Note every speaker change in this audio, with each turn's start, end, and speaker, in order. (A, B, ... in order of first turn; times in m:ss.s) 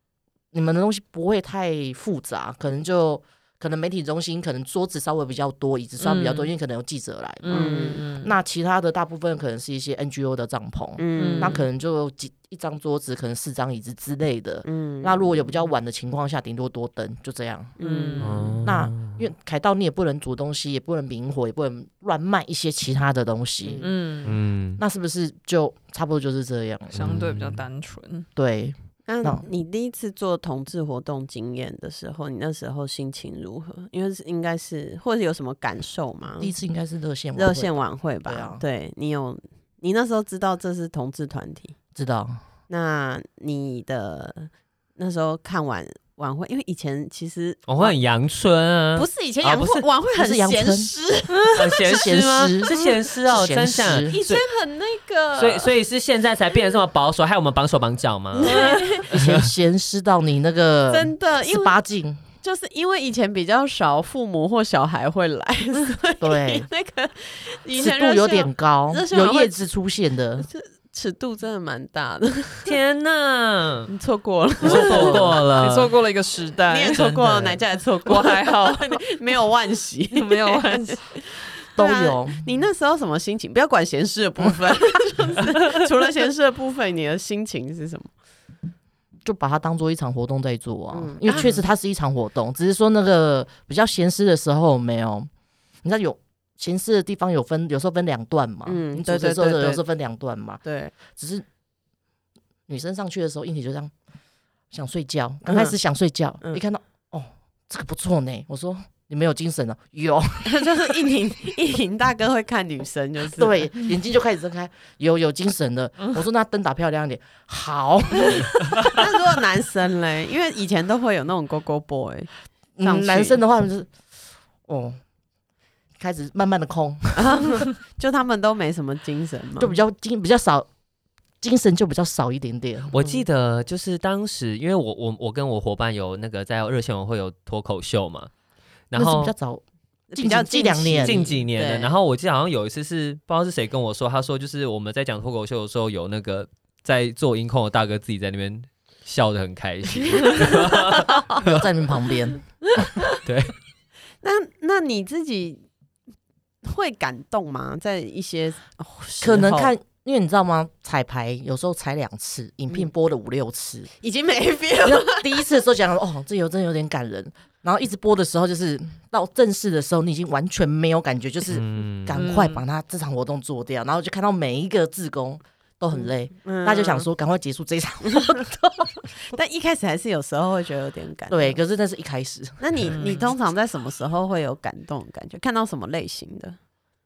0:00.5-0:17.7 A
0:06.0-0:06.5 B
0:07.4-0:08.3 B
0:07.5-0:08.0 C
0:11.0-0:11.6 C
0:11.2-0:11.6 B
0:14.6-0:15.4 C
0:17.8-0:18.5 C
0:17.8-0:18.6 B
0:18.2-0:19.2 D
0:18.6-0:23.9 A
0:23.6-0:23.9 C
0:23.8-0:24.4 B
0:24.2-0:24.8 D
0:24.8-0:27.1 A
0:26.9-0:27.6 D
0:26.9-0:28.3 B
0:28.4-0:29.4 A
0:29.0-0:36.5 C
0:36.4-0:38.6 A
0:37.4-0:41.7 C
0:41.9-0:42.4 A
0:42.7-0:48.0 C
0:47.7-0:49.8 D
0:49.0-0:51.6 C
0:50.2-0:50.9 A
0:51.6-0:54.4 D
0:51.8-0:54.1 A
0:52.7-0:52.9 C
0:53.9-0:55.7 C
0:55.3-0:59.4 D
0:58.3-0:59.1 C
0:58.5-0:58.8 B
0:59.1-1:02.2 A
1:00.9-1:01.8 C
1:02.4-1:09.6 C
1:06.2-1:06.7 A
1:07.7-1:10.4 A
1:10.4-1:12.7 C
1:12.6-1:13.9 D
1:13.9-1:15.2 C
1:14.6-1:15.9 D
1:14.6-1:15.4 A
1:14.8-1:19.0 B
1:16.7-1:28.1 C
1:20.1-1:21.2 B
1:21.8-1:22.4 A
1:29.2-1:35.3 A
1:30.9-1:31.6 C
1:35.8-1:41.4 A
1:38.6-1:39.8 C
1:40.6-1:40.9 C
1:42.7-1:43.9 A
1:44.7-1:51.0 A
1:45.5-1:45.8 C
1:50.4-1:53.7 C
1:53.4-1:59.0 A
1:58.8-2:02.3 C
2:02.8-2:03.9 A
2:02.8-2:03.4 C
2:04.7-2:05.0 A
2:06.0-2:07.2 A
2:07.2-2:09.8 C
2:09.6-2:10.7 A
2:11.4-2:12.9 A
2:12.9-2:18.3 D
2:13.0-2:13.2 C
2:18.9-2:19.3 D
2:18.9-2:19.6 A
2:20.1-2:21.9 C
2:20.1-2:21.3 A
2:21.0-2:31.6 D
2:30.0-2:31.4 C
2:31.4-2:32.4 A
2:33.2-2:33.5 D
2:34.2-2:35.6 C
2:36.6-2:39.7 C
2:39.2-2:43.9 A
2:44.0-2:45.4 C
2:44.8-2:59.1 A
2:51.5-2:52.2 D
2:52.2-2:52.6 B
2:56.0-2:57.1 C
2:58.0-2:58.4 C
2:59.2-3:01.6 C
3:01.3-3:02.9 A
3:02.6-3:06.6 C
3:02.9-3:03.3 B